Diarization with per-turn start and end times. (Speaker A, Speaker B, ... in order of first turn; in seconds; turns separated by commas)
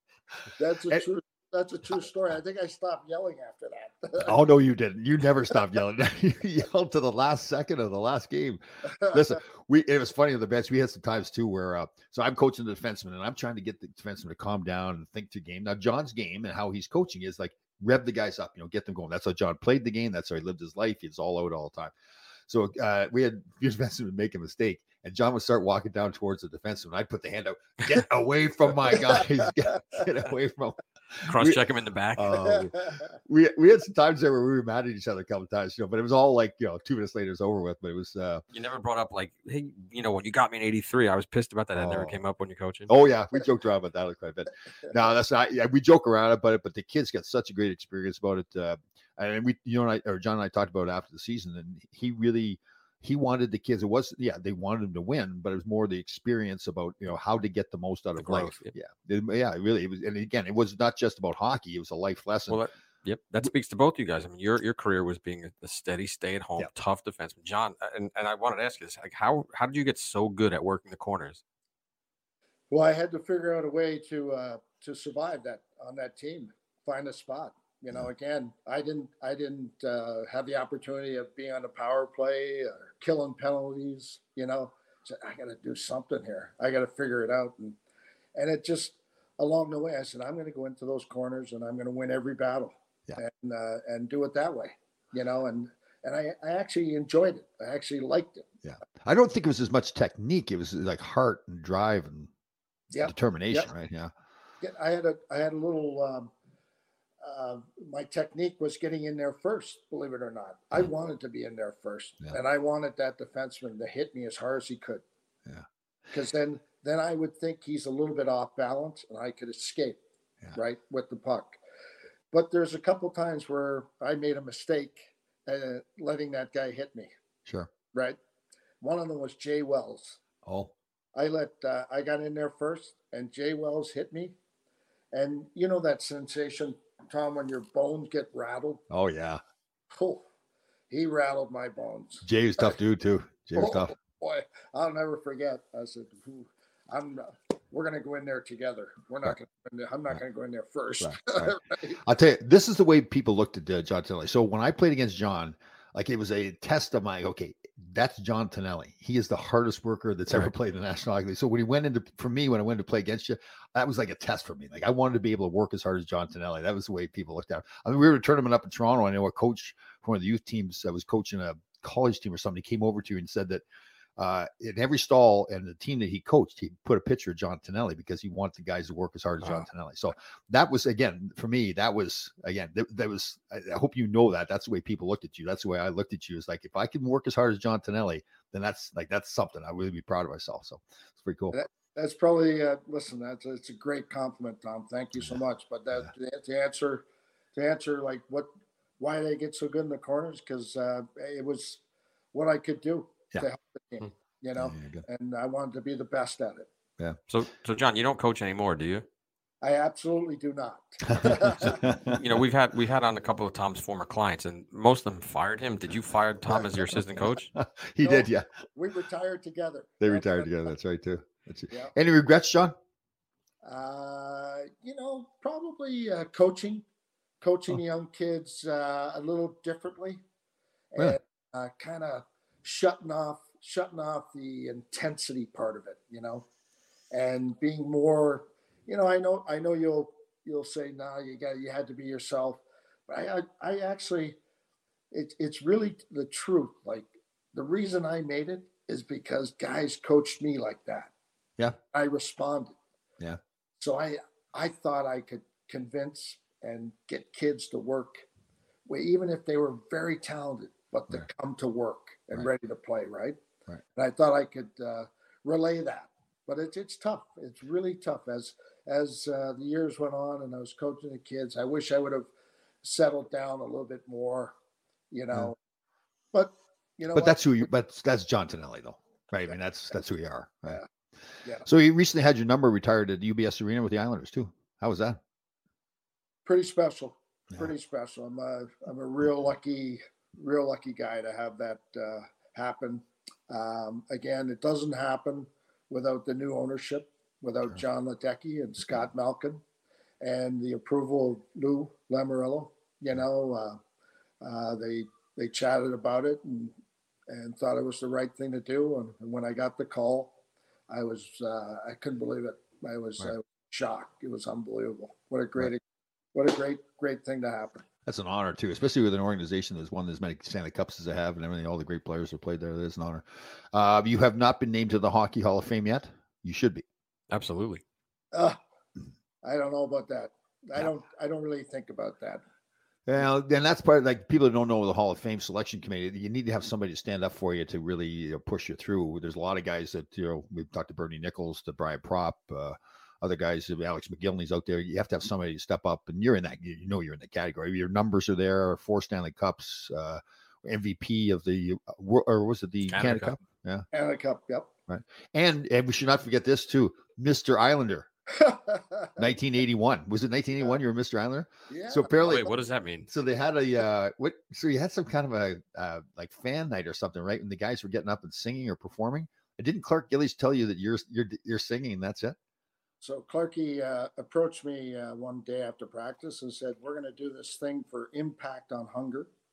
Speaker A: 0.6-4.4, Speaker B: 4.2-21.9, Speaker B: 22.5-31.6, Speaker C: 31.2-32.7, Speaker B: 32.1-38.4, Speaker C: 38.5-42.9, Speaker B: 41.7-42.2, Speaker B: 42.9-62.6, Speaker C: 58.2-58.7, Speaker C: 62.5-71.4, Speaker A: 72.7-87.8, Speaker A: 88.3-98.5, Speaker B: 98.6-102.3, Speaker A: 102.9-103.7, Speaker B: 103.0-104.1, Speaker A: 104.6-106.3, Speaker A: 107.2-115.0, Speaker A: 116.1-120.0, Speaker A: 120.5-121.6, Speaker A: 122.3-127.1, Speaker A: 127.9-128.2, Speaker A: 128.8-130.2, Speaker B: 130.4-130.7, Speaker A: 131.1-134.3, Speaker A: 135.1-138.8, Speaker B: 138.9-139.4, Speaker A: 139.9-140.2, Speaker A: 140.9-142.7, Speaker B: 142.2-143.9, Speaker A: 143.6-152.0, Speaker B: 151.0-173.6, Speaker B: 174.2-191.6, Speaker A: 191.5-197.0, Speaker A: 197.6-198.5, Speaker A: 199.0-201.8, Speaker A: 202.3-206.7, Speaker B: 204.6-205.0, Speaker C: 207.3-209.0, Speaker A: 209.6-211.9, Speaker B: 211.1-212.2, Speaker C: 212.1-217.5, Speaker B: 216.5-218.5, Speaker A: 218.0-220.5, Speaker B: 220.0-222.8, Speaker A: 223.6-226.8, Speaker A: 227.4-230.2, Speaker A: 230.9-236.4, Speaker A: 237.1-244.4, Speaker A: 245.1-251.1, Speaker A: 251.9-252.7, Speaker A: 253.8-258.2, Speaker A: 258.9-263.4, Speaker A: 263.9-272.3, Speaker A: 272.8-274.5, Speaker A: 275.1-275.6, Speaker A: 276.3-277.7, Speaker B: 277.1-280.8, Speaker B: 281.6-285.2, Speaker A: 286.4-299.6, Speaker A: 300.2-303.8, Speaker A: 304.4-306.7, Speaker A: 307.3-310.3, Speaker A: 310.9-315.8, Speaker A: 316.3-317.8, Speaker B: 318.1-326.8, Speaker C: 327.3-327.8, Speaker A: 329.4-332.4, Speaker B: 333.1-353.9, Speaker C: 352.9-353.3, Speaker A: 353.9-354.7, Speaker B: 354.9-358.1, Speaker A: 358.3-359.2, Speaker B: 359.2-362.5, Speaker A: 361.7-362.3, Speaker C: 362.2-363.1, Speaker B: 363.1-372.4, Speaker A: 373.0-379.3